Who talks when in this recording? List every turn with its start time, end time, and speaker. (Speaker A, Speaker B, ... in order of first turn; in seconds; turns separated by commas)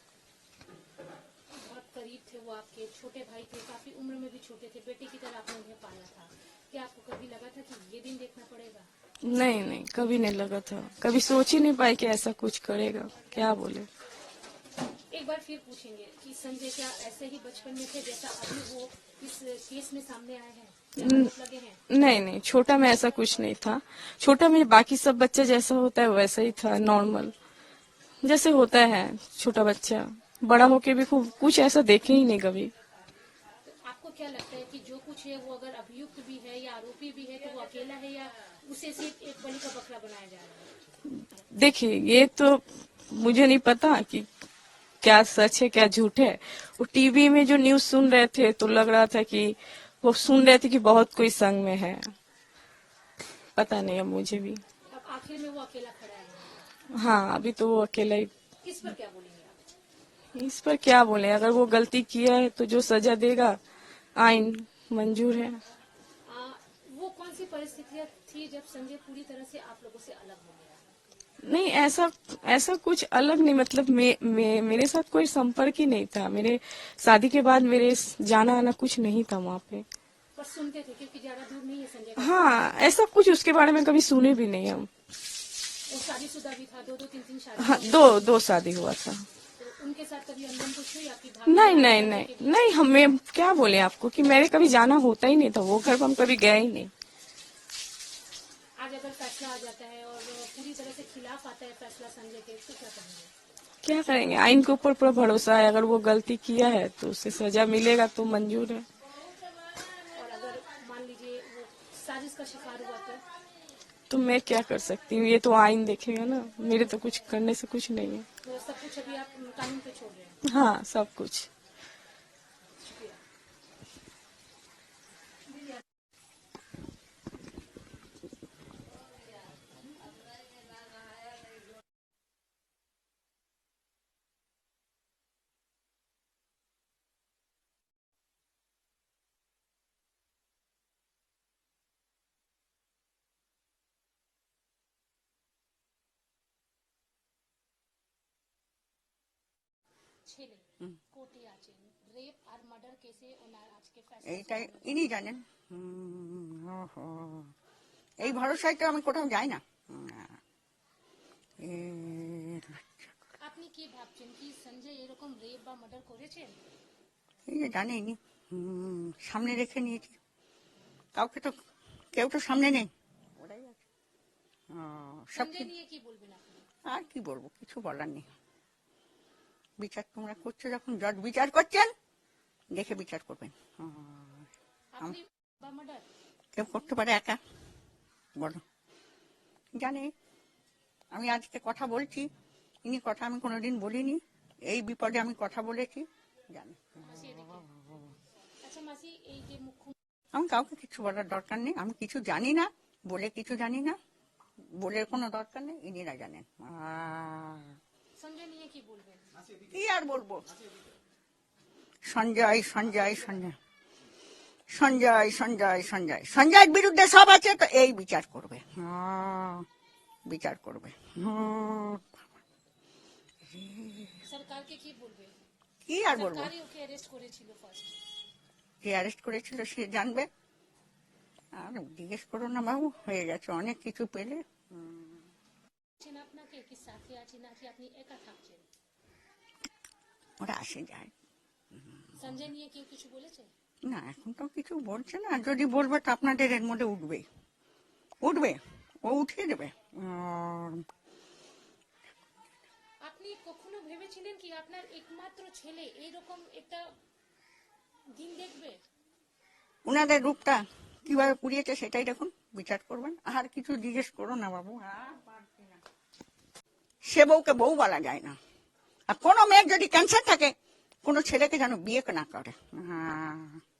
Speaker A: 1.6-8.9, Speaker B: 9.2-13.9, Speaker A: 15.1-21.8, Speaker B: 21.0-21.3, Speaker B: 21.9-27.3, Speaker B: 28.2-32.7, Speaker A: 33.6-40.7, Speaker B: 41.4-44.3, Speaker B: 45.0-52.1, Speaker B: 53.5-54.6, Speaker A: 54.9-56.7, Speaker B: 56.9-58.3, Speaker A: 58.6-59.6, Speaker B: 60.3-63.6, Speaker B: 64.2-65.6, Speaker A: 66.2-70.8, Speaker B: 71.4-79.8, Speaker A: 80.3-82.6, Speaker B: 82.2-84.9, Speaker A: 85.9-88.2, Speaker B: 87.6-89.2, Speaker A: 89.6-92.8, Speaker B: 91.5-96.9, Speaker A: 98.8-103.3, Speaker B: 103.8-108.8, Speaker A: 110.0-113.2, Speaker B: 114.1-118.3, Speaker A: 118.4-120.4, Speaker B: 120.4-121.5, Speaker A: 122.8-123.2, Speaker A: 150.2-155.0, Speaker C: 154.2-157.5, Speaker C: 158.2-160.4, Speaker C: 161.6-163.2, Speaker A: 163.4-166.6, Speaker C: 167.5-170.2, Speaker C: 171.2-171.6, Speaker C: 172.1-173.8, Speaker C: 174.7-175.7, Speaker A: 175.3-176.7, Speaker C: 176.8-178.3, Speaker C: 179.8-181.9, Speaker C: 182.7-184.5, Speaker A: 184.9-186.1, Speaker C: 186.5-187.4, Speaker C: 188.3-188.6, Speaker C: 189.7-190.1, Speaker C: 191.1-192.3, Speaker C: 192.8-198.1, Speaker A: 197.0-197.7, Speaker A: 198.6-199.9, Speaker C: 200.3-204.0, Speaker C: 204.8-207.8, Speaker A: 208.2-209.3, Speaker C: 209.7-210.5, Speaker C: 212.1-213.6, Speaker C: 214.7-219.7, Speaker C: 220.3-222.2, Speaker C: 223.4-224.2, Speaker A: 224.2-225.3, Speaker C: 225.8-226.5, Speaker A: 226.1-228.0, Speaker C: 228.8-230.3, Speaker C: 231.5-235.2, Speaker A: 236.0-238.6, Speaker C: 240.4-241.1, Speaker A: 242.2-243.5, Speaker C: 243.8-247.2, Speaker C: 248.2-250.8, Speaker A: 253.0-256.9, Speaker A: 258.1-258.8, Speaker C: 259.8-265.8, Speaker C: 267.0-268.4, Speaker C: 269.1-273.6